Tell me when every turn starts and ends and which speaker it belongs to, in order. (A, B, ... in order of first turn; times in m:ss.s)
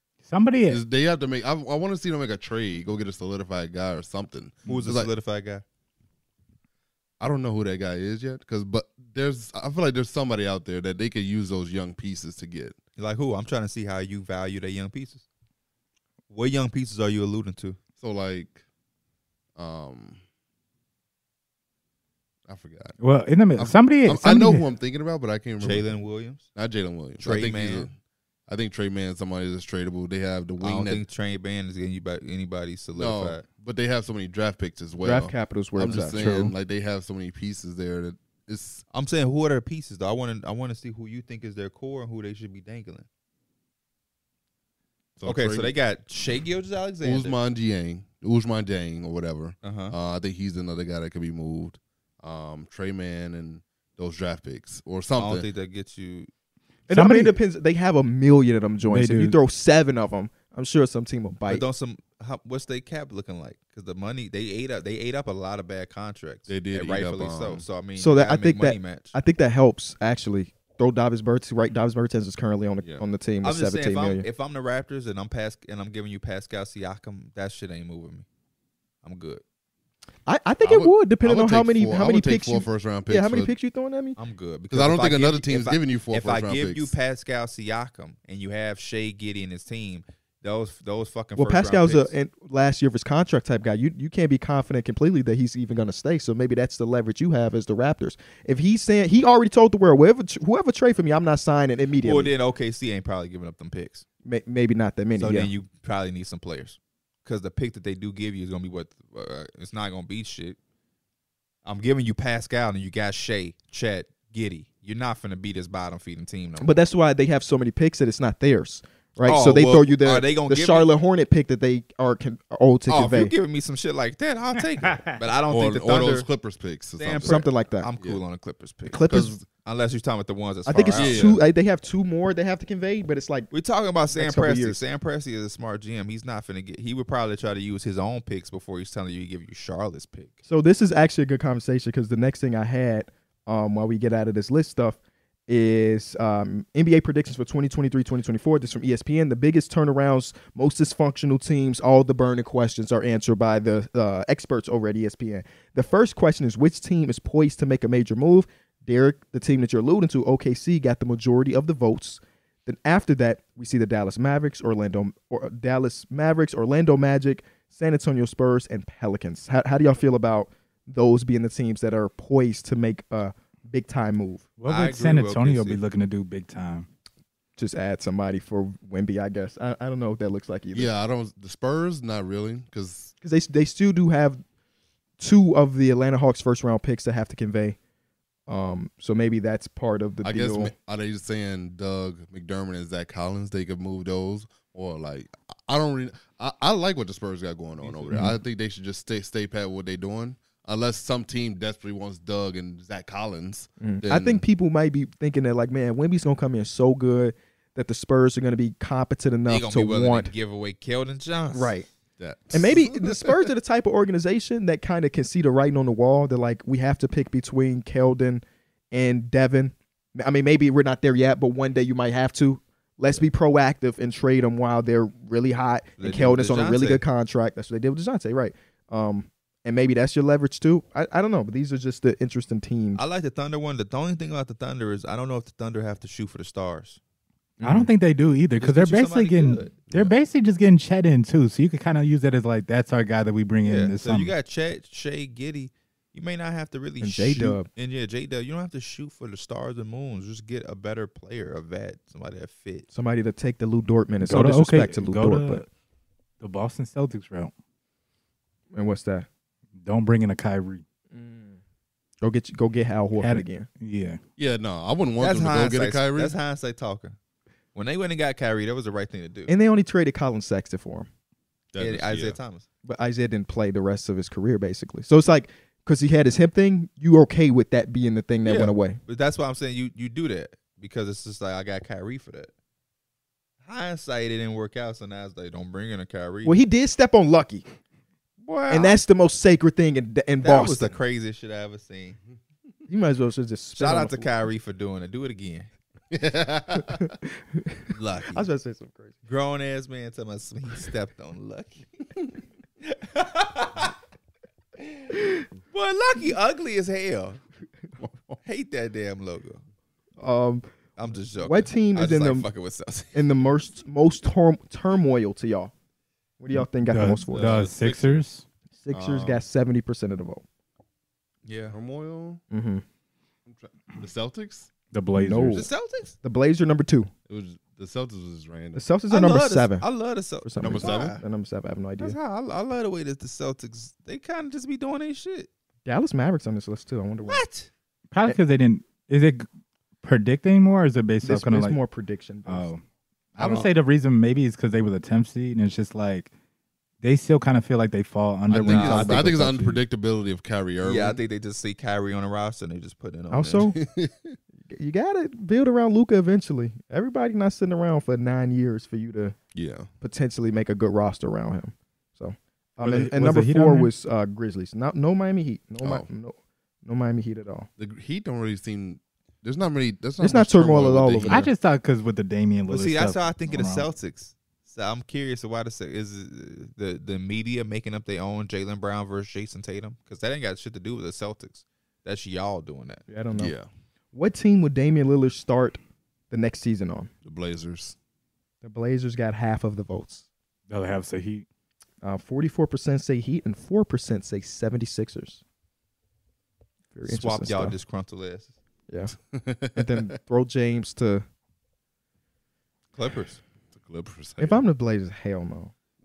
0:00.2-0:00.8 A
0:00.7-0:05.1 B
0:04.6-0:05.6 C
0:07.2-0:12.8 B
0:13.0-0:15.2 C
0:16.3-0:17.8 C
0:18.0-0:18.6 B
0:19.6-0:20.2 B
0:22.5-0:23.0 B
0:23.0-0:24.6 A
0:23.6-0:25.9 B
0:25.6-0:26.4 C
0:26.5-0:27.9 B
0:27.2-0:27.9 C
0:28.5-0:31.0 B
0:30.6-0:33.4 C
0:33.0-0:38.8 B
0:35.0-0:36.3 D
0:36.1-0:36.5 A
0:38.9-0:43.1 C
0:45.2-0:45.7 B
0:45.2-0:47.4 C
0:47.0-0:55.5 B
0:49.6-0:49.9 C
0:55.2-0:56.3 C
0:56.9-1:01.6 D
0:56.9-0:57.4 A
0:58.9-0:59.4 A
1:01.5-1:09.1 C
1:06.5-1:07.6 B
1:08.0-1:14.2 D
1:13.4-1:18.2 C
1:19.0-1:19.4 C
1:20.3-1:24.2 D
1:20.6-1:23.5 B
1:24.2-1:32.1 C
1:24.7-1:26.9 B
1:31.4-1:42.3 D
1:42.0-1:44.0 C
1:44.2-1:45.5 D
1:45.2-1:50.6 C
1:51.6-1:56.8 C
1:56.6-2:03.3 D
1:59.2-2:00.9 C
2:02.9-2:06.3 C
2:04.8-2:05.2 A
2:05.5-2:07.4 B
2:07.0-2:11.4 C
2:07.2-2:07.9 D
2:08.9-2:09.4 D
2:09.1-2:09.4 B
2:10.6-2:13.5 D
2:10.9-2:11.4 B
2:13.5-2:20.4 C
2:14.1-2:14.8 D
2:20.5-2:54.5 D
2:54.6-2:56.9 A
2:54.6-2:55.8 C
2:57.6-3:00.9 D
3:00.7-3:03.1 B
3:03.2-3:04.4 D
3:05.2-3:07.8 D
3:08.5-3:10.7 D
3:10.2-3:24.4 B
3:17.8-3:18.3 D
3:23.8-3:30.3 D
3:29.5-3:31.7 C
3:31.5-3:31.9 D
3:32.2-3:33.5 B
3:32.5-3:53.0 D
3:46.0-3:47.0 C
3:53.0-3:57.0 C
3:57.6-3:57.9 D
3:57.6-4:04.3 A
3:58.6-3:59.7 C
4:03.6-4:12.8 C
4:07.0-4:07.7 D
4:12.9-4:15.6 D
4:14.2-4:15.7 A
4:16.4-4:17.5 A
4:18.7-4:19.3 D
4:19.8-4:20.8 A
4:21.1-4:21.6 D
4:22.2-4:23.7 D
4:23.2-4:24.2 A
4:24.4-4:26.4 B
4:25.2-4:27.2 C
4:27.7-4:29.5 C
4:29.5-4:31.1 D
4:31.7-4:32.4 B
4:31.8-4:32.6 C
4:32.8-4:39.0 D
4:38.4-4:42.5 C
4:43.6-4:46.6 C
4:46.4-4:47.6 D
4:48.4-4:49.0 C
4:48.7-4:51.0 D
4:50.4-4:52.2 C
4:52.9-4:54.3 D
4:53.7-4:55.7 C
4:56.1-4:57.1 B
4:56.8-4:59.2 D
4:57.9-4:58.5 C
4:59.2-5:01.9 C
5:02.8-5:03.9 C
5:04.8-5:05.1 C
5:05.7-5:07.4 C
5:08.0-5:08.4 B
5:08.4-5:09.6 C
5:10.2-5:10.6 D
5:11.0-5:13.2 C
5:11.4-5:12.4 D
5:13.1-5:15.7 D
5:16.4-5:17.7 D
5:16.5-5:18.4 A
5:17.3-5:18.2 C
5:18.8-5:20.4 D
5:18.9-5:19.4 B
5:21.4-5:21.8 C
5:21.7-5:22.4 B
5:22.5-5:22.8 D
5:23.4-5:24.7 B
5:24.9-5:25.6 A
5:25.2-5:25.7 D
5:25.5-5:26.1 C
5:26.2-5:27.1 D
5:27.3-5:28.8 B
5:28.7-5:29.8 D
5:29.1-5:31.2 C
5:30.4-5:32.2 D
5:30.6-5:31.2 B
5:32.0-5:35.5 C
5:35.8-5:37.4 D
5:37.2-5:37.7 C
5:38.1-5:39.4 A
5:40.0-5:41.8 A
5:41.2-5:42.7 D
5:42.5-5:42.8 A
5:43.4-5:46.3 A
5:43.4-5:43.6 D
5:47.0-5:49.8 A
5:48.5-5:51.2 B
5:48.6-5:49.3 C
5:50.8-5:53.7 C
5:53.3-5:53.8 D
5:53.6-5:54.4 B
5:54.7-5:59.4 D
5:59.5-5:59.9 B
6:00.0-6:07.7 D
6:02.8-6:03.9 A
6:05.8-6:06.1 B
6:07.8-6:11.5 B
6:10.2-6:11.5 D
6:11.2-6:13.9 A
6:12.7-6:23.0 C
6:23.1-6:23.5 D
6:23.3-6:23.7 B
6:24.1-6:25.8 D
6:26.3-6:27.1 D
6:27.2-6:28.0 B
6:28.6-6:30.2 D
6:30.7-6:31.4 A
6:32.0-6:35.4 D
6:36.9-6:37.8 D
6:37.0-6:38.5 C
6:38.9-6:39.1 D
6:39.3-6:40.1 B
6:39.7-6:41.2 D
6:42.9-6:43.4 C
6:43.7-6:44.6 B
6:44.4-6:45.7 D